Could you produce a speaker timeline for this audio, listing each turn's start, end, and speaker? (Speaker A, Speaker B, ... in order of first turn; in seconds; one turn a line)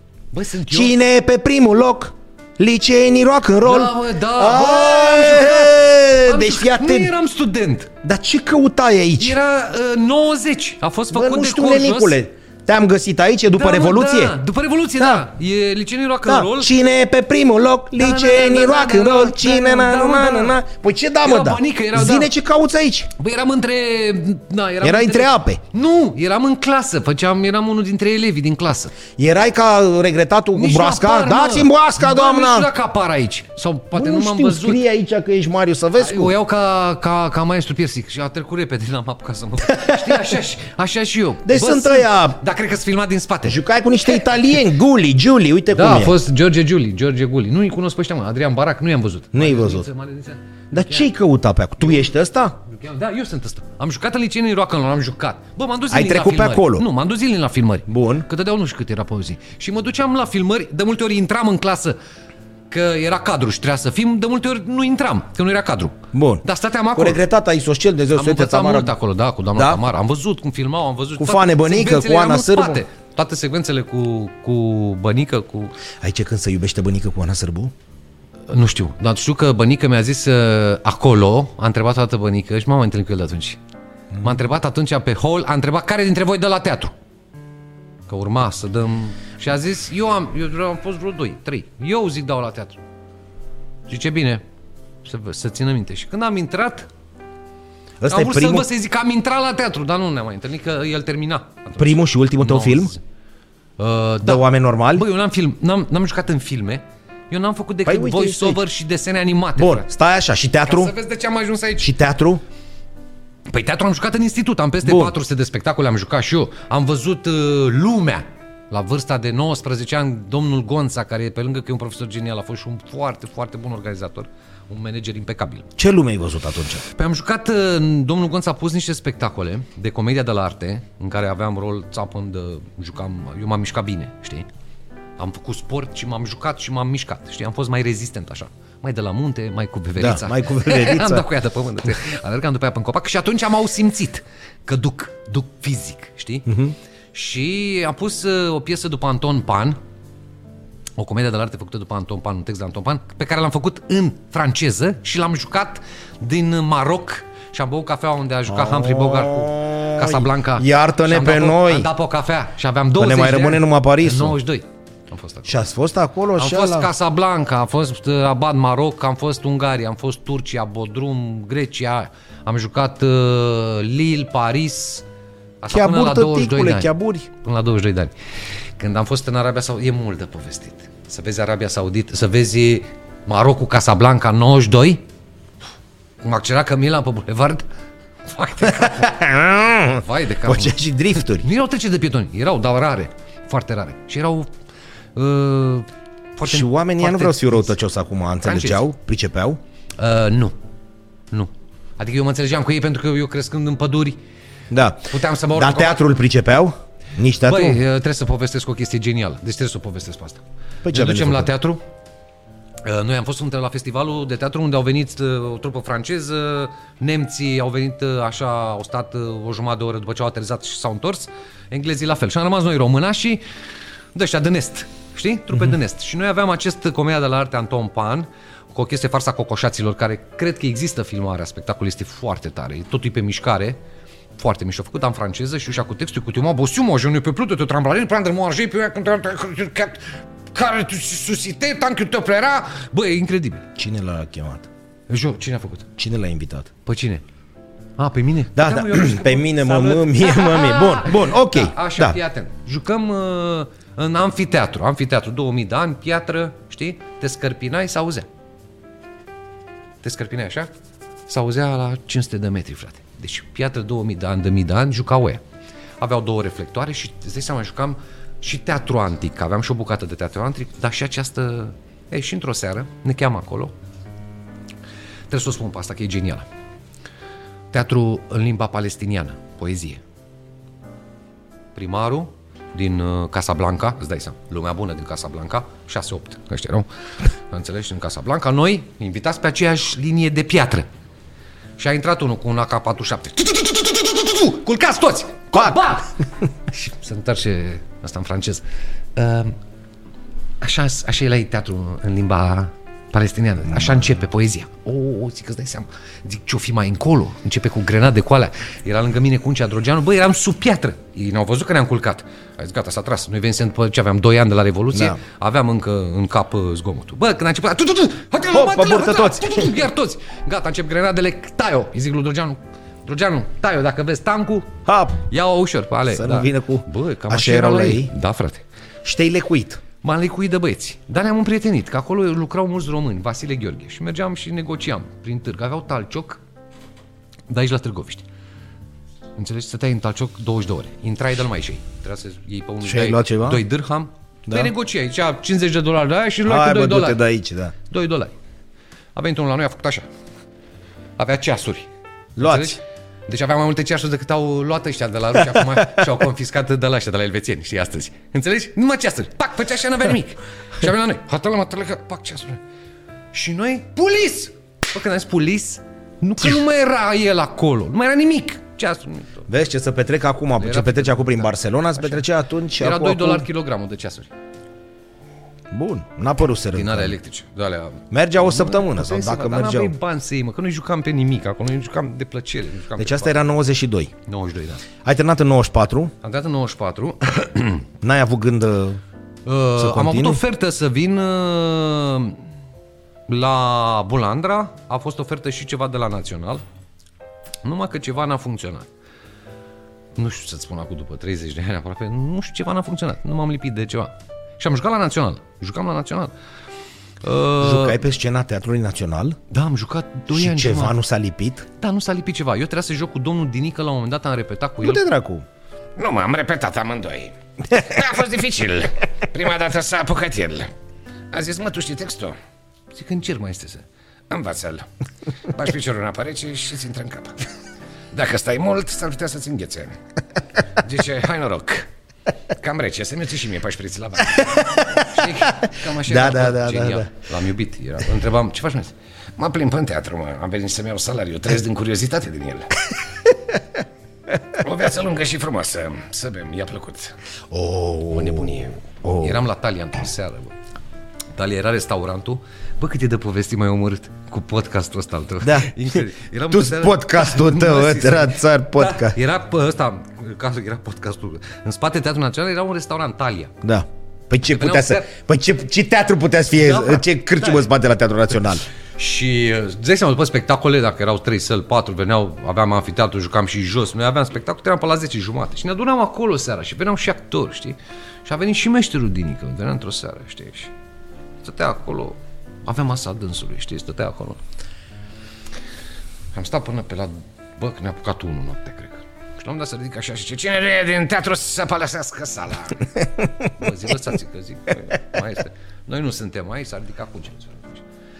Speaker A: 0.3-1.0
Speaker B: 0.7-7.1
Speaker A: 3.6-7.9
Speaker B: 8.0-9.4
Speaker A: 9.2-12.2
Speaker B: 11.1-14.4
Speaker A: 13.5-16.7
Speaker B: 15.0-15.2
Speaker B: 16.2-23.1
Speaker A: 17.9-20.6
Speaker A: 21.2-22.3
Speaker A: 23.1-28.9
Speaker B: 24.8-25.6
Speaker B: 29.1-32.7
Speaker A: 30.5-34.8
Speaker B: 33.9-36.3
Speaker A: 36.0-43.6
Speaker B: 39.6-40.3
Speaker B: 41.4-42.4
Speaker B: 43.4-46.1
Speaker A: 45.7-51.1
Speaker B: 49.3-49.9
Speaker B: 50.7-52.5
Speaker A: 52.6-62.0
Speaker B: 55.9-56.9
Speaker B: 57.9-58.3
Speaker A: 62.7-67.2
Speaker B: 66.1-66.4
Speaker B: 66.9-68.9
Speaker A: 68.2-75.7
Speaker B: 69.5-69.8
Speaker B: 71.2-72.8
Speaker B: 76.0-77.7
Speaker A: 78.5-83.6
Speaker B: 84.1-84.4
Speaker A: 84.2-86.9
Speaker A: 88.1-92.8
Speaker A: 93.9-94.4
Speaker A: 95.0-96.9
Speaker B: 98.0-98.7
Speaker A: 98.1-103.0
Speaker B: 101.8-102.9
Speaker A: 103.8-109.9
Speaker B: 104.2-105.0
Speaker B: 107.8-108.6
Speaker B: 109.6-110.9
Speaker A: 110.6-111.9
Speaker B: 111.8-112.4
Speaker A: 113.5-125.7
Speaker B: 114.8-115.1
Speaker B: 125.8-126.8
Speaker A: 126.8-134.5
Speaker A: 135.2-146.4
Speaker B: 140.0-141.2
Speaker B: 146.4-146.7
Speaker A: 147.1-149.8
Speaker A: 151.0-165.6
Speaker B: 158.5-161.9
Speaker B: 163.0-164.4
Speaker B: 165.4-166.9
Speaker A: 166.3-175.1
Speaker A: 175.6-178.1
Speaker B: 175.7-177.3
Speaker A: 178.8-185.0
Speaker A: 186.2-187.7
Speaker A: 188.3-189.1
Speaker B: 188.7-191.5
Speaker A: 189.9-194.5
Speaker A: 195.1-197.7
Speaker B: 196.4-199.6
Speaker A: 198.4-198.8
Speaker A: 200.0-200.6
Speaker A: 201.3-204.2
Speaker B: 204.7-207.8
Speaker A: 205.1-206.0
Speaker A: 207.4-211.8
Speaker B: 210.8-211.5
Speaker A: 212.8-223.4
Speaker A: 224.1-233.8
Speaker A: 234.4-243.7
Speaker B: 243.8-244.7
Speaker A: 245.1-245.9
Speaker B: 245.9-246.7
Speaker A: 246.8-247.2
Speaker A: 248.0-258.3
Speaker B: 248.5-252.2
Speaker A: 260.0-260.7
Speaker A: 261.3-265.4
Speaker A: 266.0-273.7
Speaker A: 275.3-276.4
Speaker A: 277.7-280.0
Speaker A: 281.7-286.9
Speaker A: 287.5-290.9
Speaker A: 291.8-296.1
Speaker B: 295.5-296.1
Speaker A: 296.7-298.6
Speaker A: 299.1-299.6
Speaker A: 300.6-328.6
Speaker B: 314.9-315.2
Speaker B: 318.5-319.7
Speaker B: 324.9-325.2
Speaker B: 326.1-328.1
Speaker B: 329.0-329.8
Speaker A: 330.0-336.4
Speaker A: 337.5-338.2
Speaker A: 339.4-347.2
Speaker B: 342.8-343.6
Speaker B: 344.5-344.7
Speaker B: 346.4-347.7
Speaker A: 347.9-348.3
Speaker A: 349.1-350.1
Speaker A: 351.2-362.6
Speaker B: 352.4-352.8
Speaker A: 363.3-369.5
Speaker B: 369.5-373.4
Speaker A: 370.6-372.2
Speaker A: 372.8-374.3
Speaker B: 375.7-377.1
Speaker A: 376.7-383.3
Speaker B: 378.1-379.9
Speaker B: 383.0-384.1
Speaker A: 384.2-384.8
Speaker B: 385.0-386.1
Speaker A: 386.2-387.9
Speaker B: 388.0-389.0
Speaker A: 389.4-392.4
Speaker B: 389.8-390.4
Speaker A: 393.3-396.6
Speaker A: 397.6-398.9
Speaker A: 400.1-406.3
Speaker A: 407.2-408.0
Speaker B: 407.6-409.4
Speaker A: 409.5-411.0
Speaker B: 410.3-411.6
Speaker A: 411.8-415.0
Speaker B: 414.8-415.4
Speaker C: 416.0-420.7
Speaker C: 421.3-422.4
Speaker A: 422.9-423.9
Speaker C: 424.3-424.8
Speaker C: 425.6-427.3
Speaker C: 428.1-429.9
Speaker A: 430.8-431.8
Speaker C: 430.9-431.8
Speaker C: 432.6-433.6
Speaker A: 432.9-438.9
Speaker B: 434.4-437.1
Speaker C: 439.4-442.6
Speaker A: 441.5-442.7
Speaker C: 444.6-447.1
Speaker B: 447.5-449.4
Speaker A: 448.1-450.5
Speaker A: 451.3-463.5
Speaker B: 455.4-456.0
Speaker B: 456.5-459.2
Speaker B: 463.6-468.6
Speaker A: 464.5-465.1
Speaker A: 466.6-467.7
Speaker A: 469.0-480.7
Speaker A: 481.4-484.4
Speaker A: 486.3-491.3
Speaker C: 490.6-492.7
Speaker A: 491.9-492.7
Speaker A: 493.5-497.8